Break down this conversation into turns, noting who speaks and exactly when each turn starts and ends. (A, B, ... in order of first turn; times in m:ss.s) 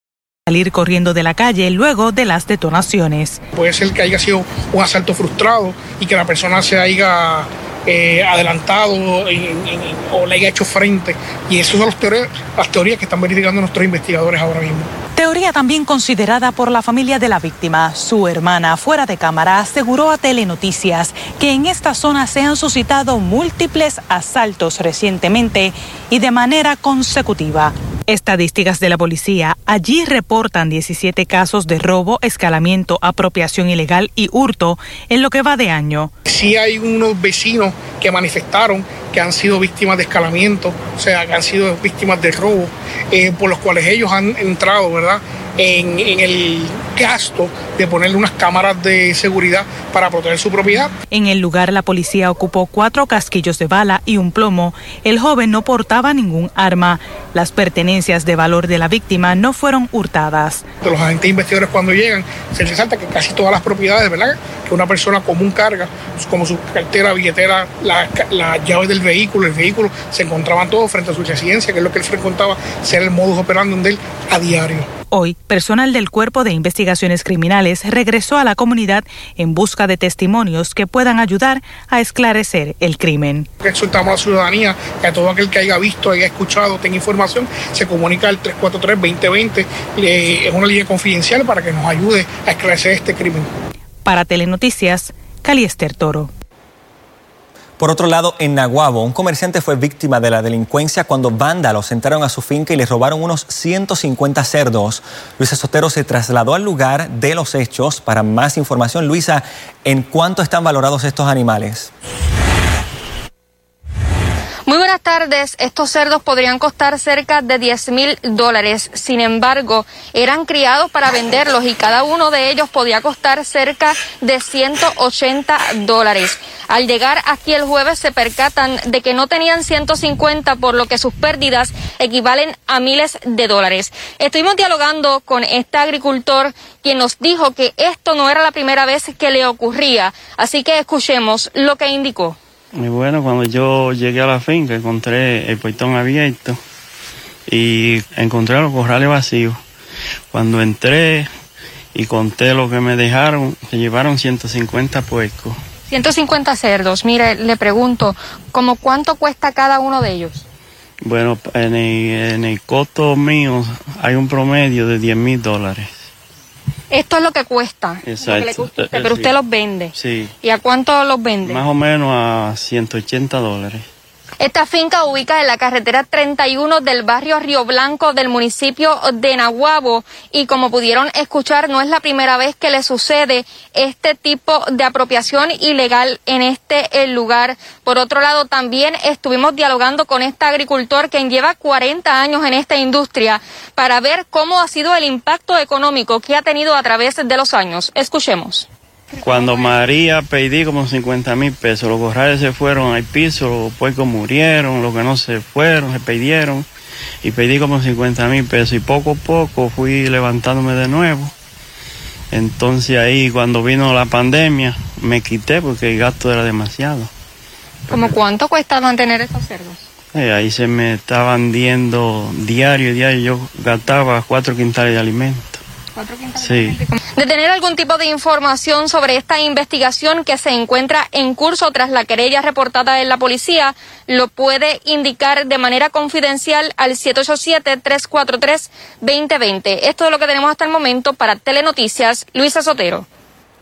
0:00.5-0:03.4 A
0:03.5-0:14.9 B
0:15.2-0:36.1 A
0:36.3-0:50.9 B
0:51.1-1:00.6 A
1:00.8-1:14.9 B
1:15.1-1:23.5 A
1:23.6-1:33.5 B
1:34.0-1:36.3 A
1:37.8-1:51.9 C
1:54.7-2:22.4 D
2:22.7-2:26.6 E
2:27.5-2:29.6 E
2:30.3-2:31.3 E
2:31.9-2:35.6 E
2:35.9-2:40.4 D
2:41.0-2:46.0 E
2:46.9-2:51.6 D
2:48.0-2:49.4 E
2:49.9-2:50.3 E
2:51.4-2:53.8 E
2:54.4-3:18.7 D
3:19.2-3:26.6 E
3:27.2-3:31.3 E
3:32.3-3:37.1 E
3:37.9-3:39.8 D
3:40.1-3:45.6 E
3:46.0-3:46.3 D
3:46.4-3:46.8 E
3:46.9-4:03.0 D